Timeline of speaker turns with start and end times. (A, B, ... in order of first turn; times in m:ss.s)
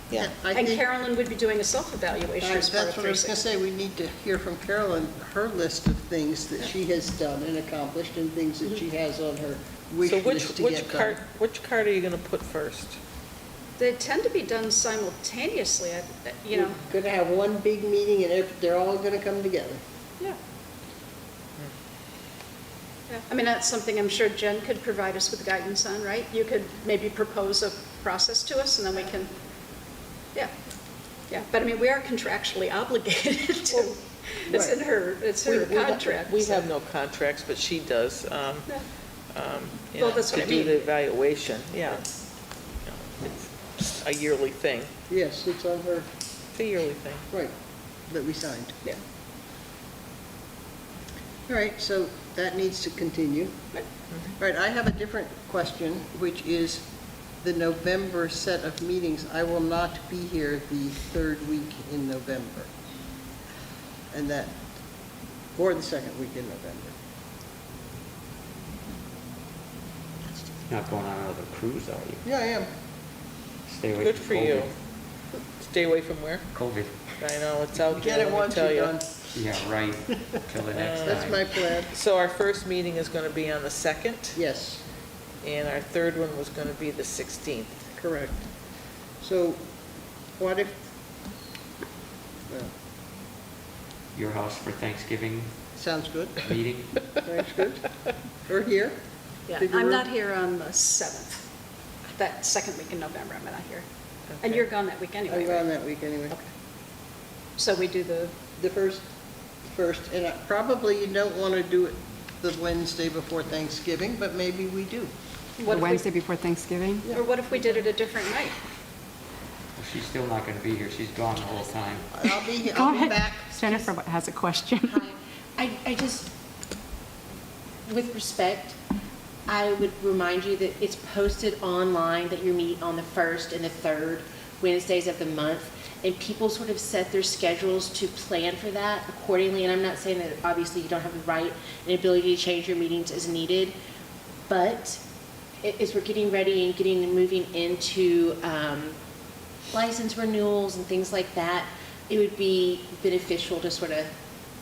0:00.1-0:00.8 A
0:00.5-0:03.4 B
0:02.4-0:11.2 A
0:10.0-0:13.0 C
0:13.8-0:16.8 B
0:16.5-0:19.8 A
0:23.1-0:29.3 B
0:31.3-0:36.6 B
0:35.4-0:38.7 C
0:39.3-0:42.0 C
0:40.0-0:40.9 B
0:42.8-0:44.9 C
0:45.1-0:46.1 A
0:46.5-0:47.2 C
0:48.1-0:48.8 A
0:51.5-0:53.6 A
0:54.1-0:54.4 C
0:54.4-0:56.9 A
0:57.4-1:02.7 A
1:04.1-1:04.6 A
1:05.6-1:06.9 A
1:10.6-1:12.2 D
1:12.2-1:12.7 A
1:13.6-1:14.7 D
1:14.0-1:14.7 C
1:15.6-1:16.5 C
1:16.5-1:17.0 D
1:17.2-1:19.0 C
1:17.9-1:19.6 A
1:19.3-1:21.4 D
1:20.7-1:24.4 C
1:21.0-1:21.9 A
1:24.3-1:24.8 A
1:25.4-1:27.9 C
1:28.0-1:28.4 A
1:29.2-1:29.6 A
1:30.4-1:30.8 A
1:34.1-1:35.5 D
1:35.7-1:36.6 A
1:36.4-1:37.1 D
1:37.1-1:37.9 A
1:38.4-1:39.0 A
1:39.5-1:41.4 B
1:39.6-1:40.0 A
1:42.1-1:43.8 B
1:44.3-1:44.6 C
1:44.4-1:45.7 B
1:45.3-1:46.4 A
1:47.6-1:48.3 B
1:48.6-1:49.0 A
1:49.6-1:55.1 A
1:55.6-1:56.0 B
1:55.7-1:57.1 E
1:57.1-1:58.6 B
1:59.8-2:02.1 D
2:02.1-2:03.8 A
2:02.6-2:05.0 E
2:04.8-2:06.3 F
2:07.8-2:08.8 F
2:09.5-2:23.7 F
2:24.5-2:25.0 F
2:25.6-2:29.0 F
2:29.7-2:34.1 F